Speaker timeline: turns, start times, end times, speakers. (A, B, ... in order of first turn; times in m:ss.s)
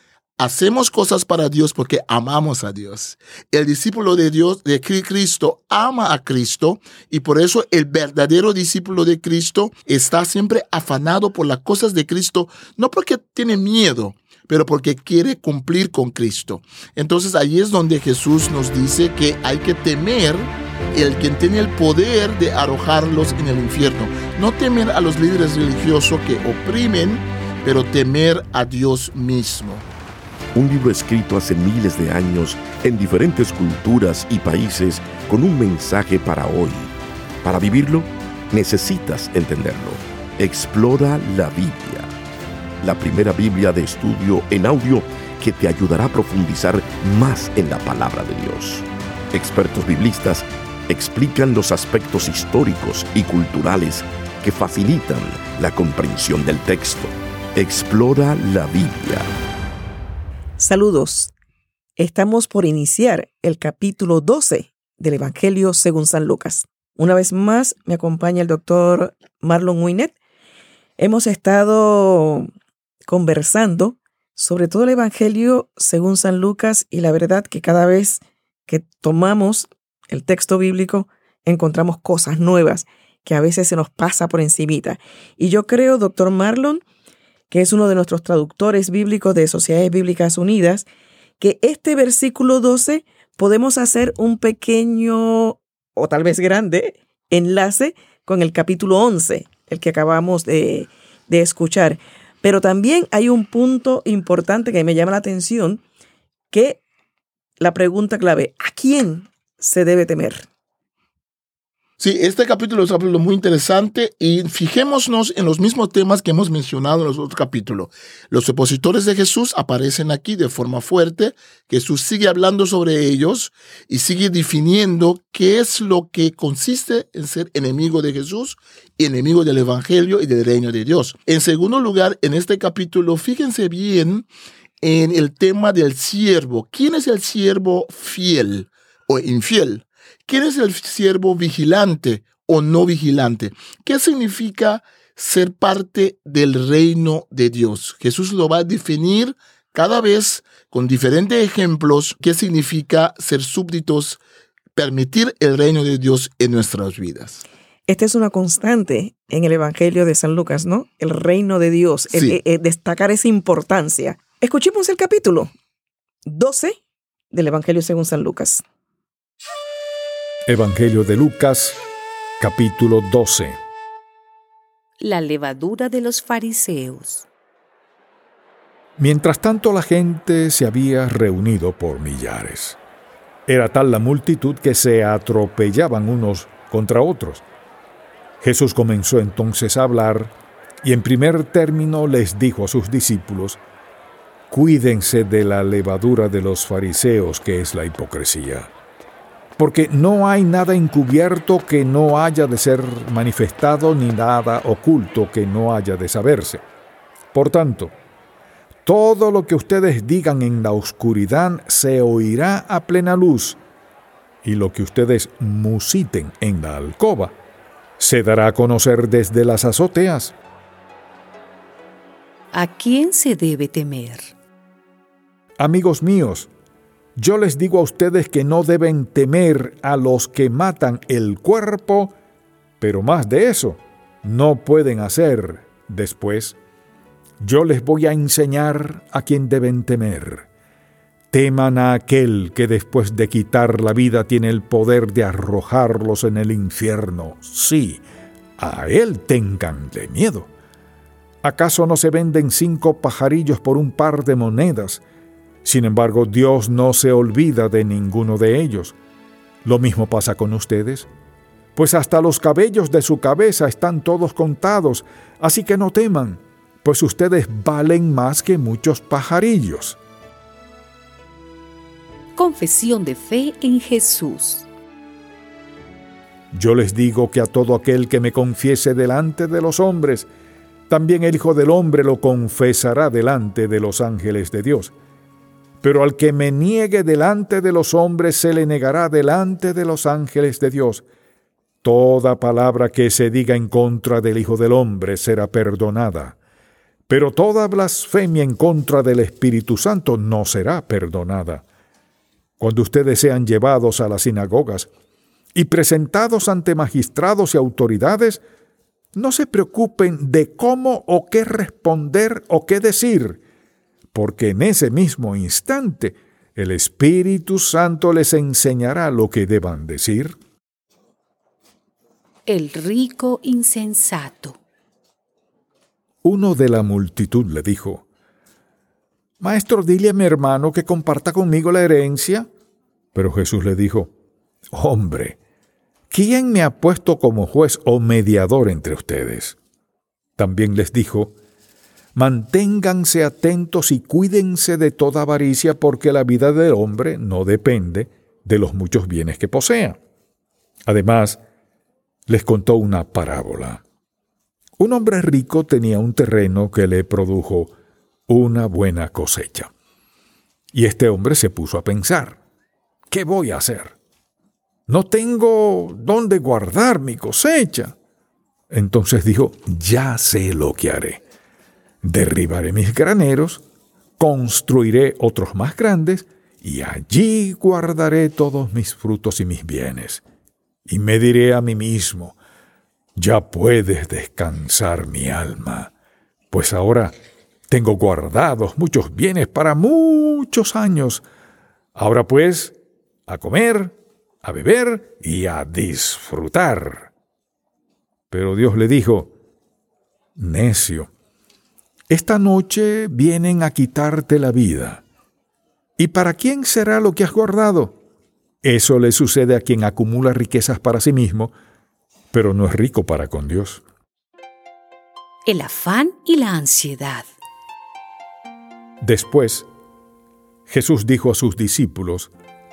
0:00.4-0:29.8 A
0:30.5-0:42.1 B
0:42.8-0:59.3 B
1:00.6-1:01.3 C
1:02.0-1:10.1 C
1:11.0-1:12.5 C
1:13.1-1:26.8 C
1:27.5-1:30.8 C
1:31.4-1:45.8 C
1:46.5-1:46.8 C
1:47.6-1:50.5 C
1:52.0-2:14.3 A
2:14.8-2:34.2 A
2:34.8-2:37.4 A
2:37.9-2:45.5 C
2:42.1-2:42.4 A
2:46.2-2:46.8 C
2:47.3-2:48.6 C
2:50.5-2:51.8 D
2:52.4-2:53.6 D
2:55.0-2:57.2 E
2:59.0-3:02.8 D
3:03.5-3:07.4 D
3:08.4-3:10.3 D
3:10.8-3:13.6 D
3:14.5-3:18.7 D
3:19.6-3:26.6 D
3:27.3-3:27.9 D
3:28.8-3:33.6 D
3:34.4-3:37.3 D
3:38.0-3:40.3 D
3:42.5-3:44.3 E
3:45.6-3:46.5 D
3:47.2-3:52.1 D
3:52.8-3:56.6 D
3:57.4-4:00.4 D
4:01.3-4:08.0 D
4:08.6-4:10.5 D
4:11.4-4:15.0 D
4:15.6-4:18.9 D
4:19.6-4:21.1 D
4:21.8-4:30.0 D
4:32.4-4:34.7 E
4:36.5-4:40.3 D
4:40.9-4:44.9 D
4:45.8-4:51.0 D
4:51.8-4:56.4 D
4:57.1-5:01.6 D
5:02.6-5:04.9 D
5:05.5-5:08.4 D
5:09.1-5:13.4 D
5:14.1-5:20.3 D
5:22.5-5:24.6 E
5:26.2-5:28.0 D
5:29.4-5:32.5 D
5:33.1-5:34.1 D
5:34.7-5:35.4 D
5:36.1-5:39.6 D
5:40.4-5:41.3 D
5:42.1-5:50.0 D
5:50.9-5:51.4 D
5:52.3-5:53.8 D
5:54.8-5:57.7 D
5:58.3-5:59.7 D
6:00.7-6:02.4 D
6:03.1-6:03.9 D
6:04.9-6:07.9 D
6:08.7-6:11.2 D
6:12.0-6:13.6 D
6:14.2-6:20.2 D
6:20.9-6:22.4 D
6:23.2-6:25.9 D
6:26.5-6:27.1 D
6:27.7-6:31.2 D
6:31.9-6:32.7 D
6:33.3-6:37.1 D
6:38.3-6:39.3 D
6:40.4-6:41.1 D
6:42.1-6:45.0 D
6:46.0-6:48.0 D
6:48.6-6:51.5 D
6:52.3-6:53.8 D
6:55.4-6:57.2 E
6:59.0-6:59.7 D
7:00.7-7:02.3 D